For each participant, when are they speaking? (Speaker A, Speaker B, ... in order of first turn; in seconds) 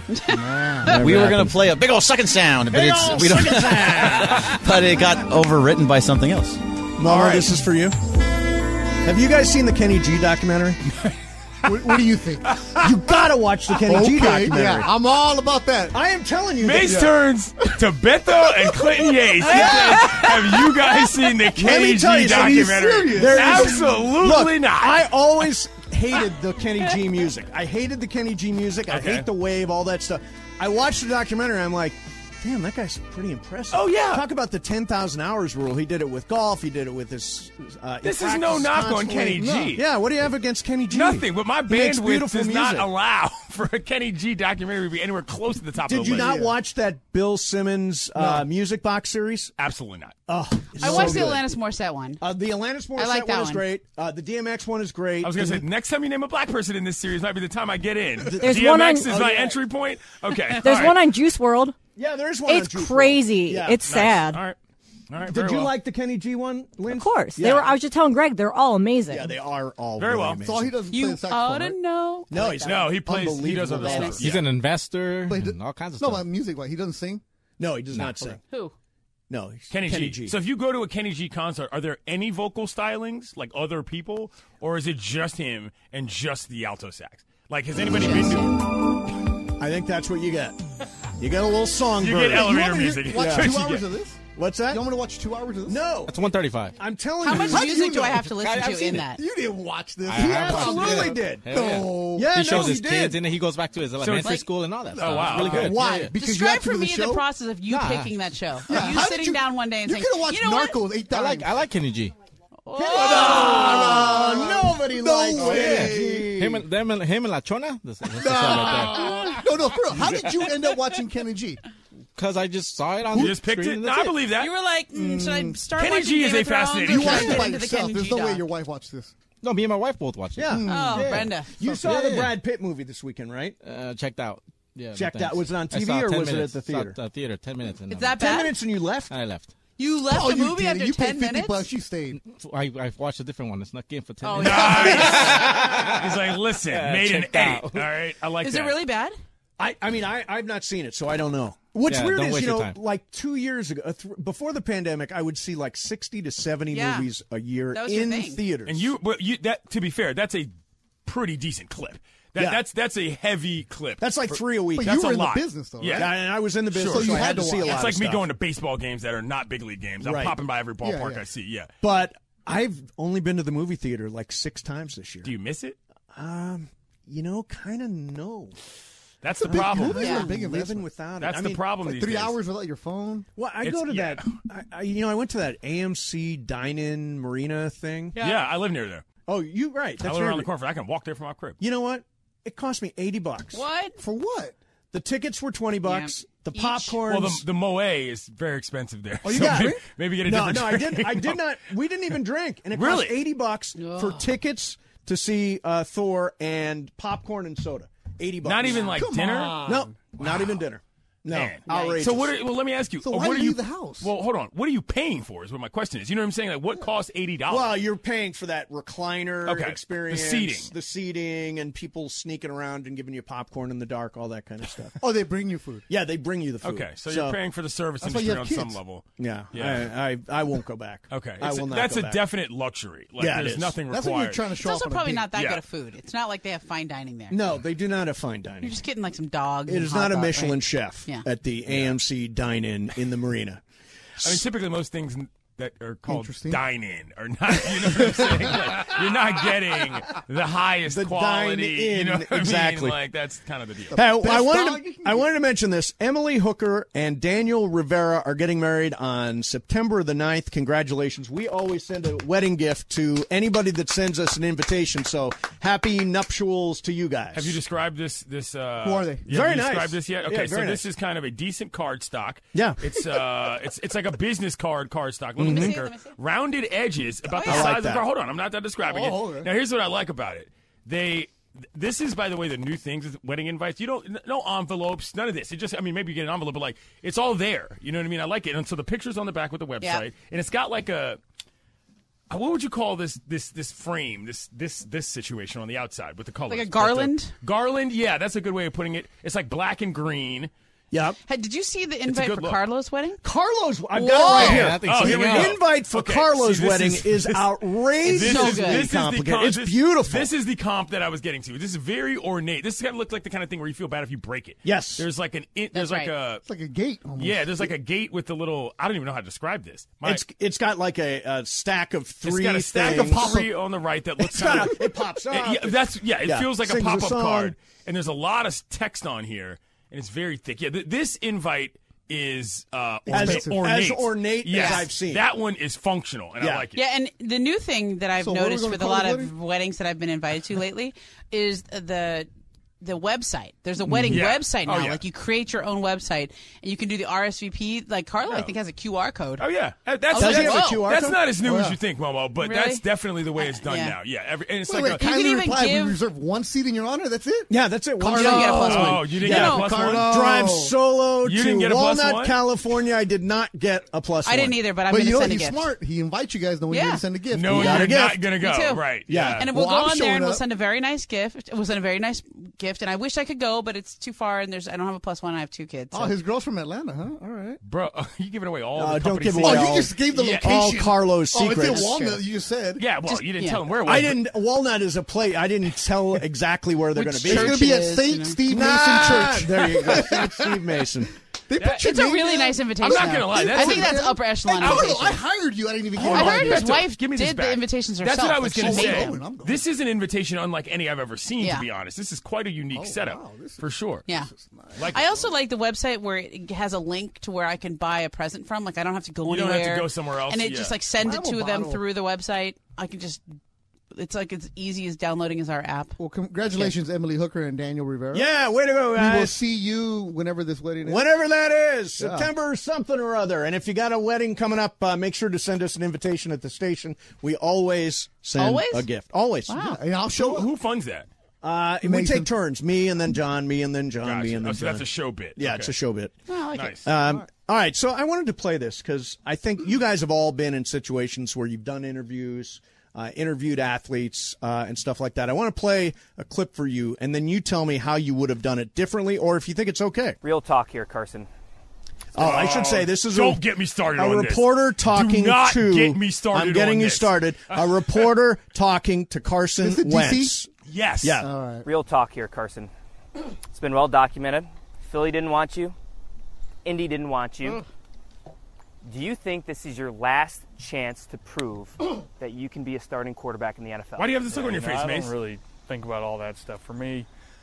Speaker A: 0.1-0.4, 50.8-52.2, 53.0-53.6, 70.9-72.9, 73.8-74.2, 78.5-78.7, 88.0-88.6, 97.2-99.2, 106.2-110.8, 112.7-113.7, 124.4-128.4, 130.7-131.5, 137.9-138.5, 139.8-141.7, 144.2-145.4, 148.4-149.2, 156.7-157.1, 157.7-158.4, 180.0-180.3, 188.2-188.4, 193.5-194.0, 195.8-197.0, 203.8-204.2, 234.6-237.4, 238.6-241.3, 275.4-276.2, 277.3-277.7, 296.5-297.3, 301.3-303.2, 303.9-304.7, 308.1-308.9, 315.7-316.1, 334.5-334.9, 336.8-342.3, 342.8-349.4, 350.1-350.9, 352.4-352.9, 353.4-353.9, 355.0-356.0, 358.1-359.6, 364.2-365.7, 366.7-367.0, 367.5-376.1, 381.6-382.2, 383.1-383.6, 386.9-388.4, 391.8-395.2, 396.0-399.2, 401.4-401.7, 404.9-413.3, 413.9-416.0, 428.4-428.9, 429.5-429.8, 436.3-436.9
Speaker B: 0.6-1.0, 11.7-12.6, 13.8-16.0, 16.9-17.1, 22.2-24.0, 39.4-39.8, 46.2-46.5, 50.8-51.3, 70.4-71.8, 75.3-77.2, 77.9-78.4, 92.3-96.0, 97.3-98.5, 99.1-102.8, 105.7-107.2, 108.7-111.5, 113.0-116.4, 118.2-121.6, 124.9-125.6, 126.9-129.1, 130.5-132.4, 140.1-142.2, 164.8-168.0, 170.8-171.2, 179.4-181.0, 181.8-183.3, 194.0-194.5, 199.2-199.8, 208.7-210.1, 213.0-214.1, 225.0-225.9, 228.0-228.8, 233.8-235.3, 246.1-246.6, 247.9-249.0, 253.9-255.3, 268.8-269.3, 278.9-279.5, 304.2-304.7, 316.4-317.7, 322.9-323.5, 333.1-333.8, 338.2-339.3, 351.4-351.8, 354.6-360.8, 364.9-367.8, 369.4-370.4, 375.9-377.6, 379.4-382.9, 387.2-390.8, 391.5-396.9, 398.4-399.6, 402.7-405.3, 411.0-411.8, 416.0-418.3, 418.9-421.1, 422.0-422.3, 429.5-430.5, 431.8-432.3, 437.0-437.3, 459.6-460.3, 461.2-461.7
Speaker C: 0.8-1.5, 2.7-4.5, 7.0-8.0, 9.0-10.8, 12.8-14.9, 15.9-17.0, 19.4-20.3, 21.6-42.9, 45.9-49.5, 50.3-51.4, 52.2-55.6, 58.2-59.6, 62.0-63.8, 65.3-67.8, 69.1-70.8, 72.3-74.4, 77.6-78.4, 79.3-80.4, 89.6-90.5, 91.2-93.6, 94.3-94.8, 95.7-96.2, 96.8-97.8, 100.2-103.2, 105.1-106.1, 112.8-116.6, 123.1-123.5, 130.4-133.6, 134.9-137.0, 138.2-139.1, 144.8-146.0, 149.6-158.9, 162.4-162.6, 164.0-165.0, 166.0-168.2, 170.0-170.4, 171.8-175.3, 176.1-178.6, 179.8-181.8, 183.4-188.2, 189.3-190.5, 191.6-193.6, 194.9-197.4, 199.3-209.1, 209.6-212.3, 217.5-225.0, 225.9-227.4, 229.2-232.2, 233.2-233.8, 237.3-238.8, 239.7-243.6, 250.9-253.0, 253.9-267.6, 269.3-270.8, 272.5-272.9, 275.4-275.8, 277.4-278.0, 300.9-301.2, 303.2-310.3, 314.6-315.1, 320.0-323.4, 324.2-327.5, 333.1-335.3, 336.4-336.7, 343.9-344.3, 350.2-351.2, 357.5-364.6, 367.5-368.3, 369.1-369.5, 378.8-381.9, 383.9-387.7, 388.5-391.1, 418.1-419.4, 420.8-429.7, 431.4-436.1, 436.8-450.2, 452.1-453.4, 454.0-460.5, 461.0-461.3
Speaker D: 0.9-6.6
Speaker E: 7.0-7.6, 11.7-12.9, 16.6-25.0, 28.9-29.3, 33.7-34.2, 38.0-39.8, 40.9-46.4, 48.2-48.5, 49.6-50.2, 55.2-61.0, 63.8-64.6, 65.1-65.7, 70.0-70.4, 72.7-74.4, 79.7-88.6, 92.0-93.8, 104.0-104.3, 104.9-105.7, 113.1-113.9, 123.1-124.5, 125.8-127.5, 144.4-148.8, 158.7-160.5, 161.1-166.1, 166.8-171.7, 175.2-175.8, 179.2-180.3, 181.2-182.3, 183.6-184.3, 188.2-189.1, 190.0-191.6, 197.1-201.4, 202.7-203.2, 208.4-209.6, 210.2-210.6, 211.3-217.8, 219.4-220.7, 226.6-229.9, 231.1-234.4, 235.3-235.6, 241.7-241.9, 244.2-254.0, 267.4-291.2, 292.3-300.5, 302.1-302.6, 304.4-316.4, 317.2-320.2, 322.2-336.8, 344.1-345.0, 349.4-355.1, 358.5-360.3, 361.2-362.4, 367.3-369.5, 377.6-380.5, 382.8-384.2, 391.6-391.9, 392.8-394.0, 394.6-394.9, 396.0-404.1, 404.8-405.0, 409.3-410.8, 430.2-431.1, 434.0-435.7, 436.6-436.8, 452.2-458.1, 460.7-461.2, 474.0-475.1
Speaker F: 58.4-59.1, 60.6-61.8, 62.5-64.4, 66.9-69.3
Speaker G: 74.2-76.3, 96.1-96.8, 98.4-99.1, 100.1-106.1, 107.7-108.1, 111.1-112.1, 115.4-119.4, 122.2-124.1, 129.4-130.6, 133.6-138.2, 139.1-139.5, 142.2-147.9, 151.9-152.8, 304.4-305.6
Speaker H: 450.2-451.3, 461.6-462.7, 463.5-465.8, 466.6-467.6, 468.8-474.2
Speaker I: 474.3-477.1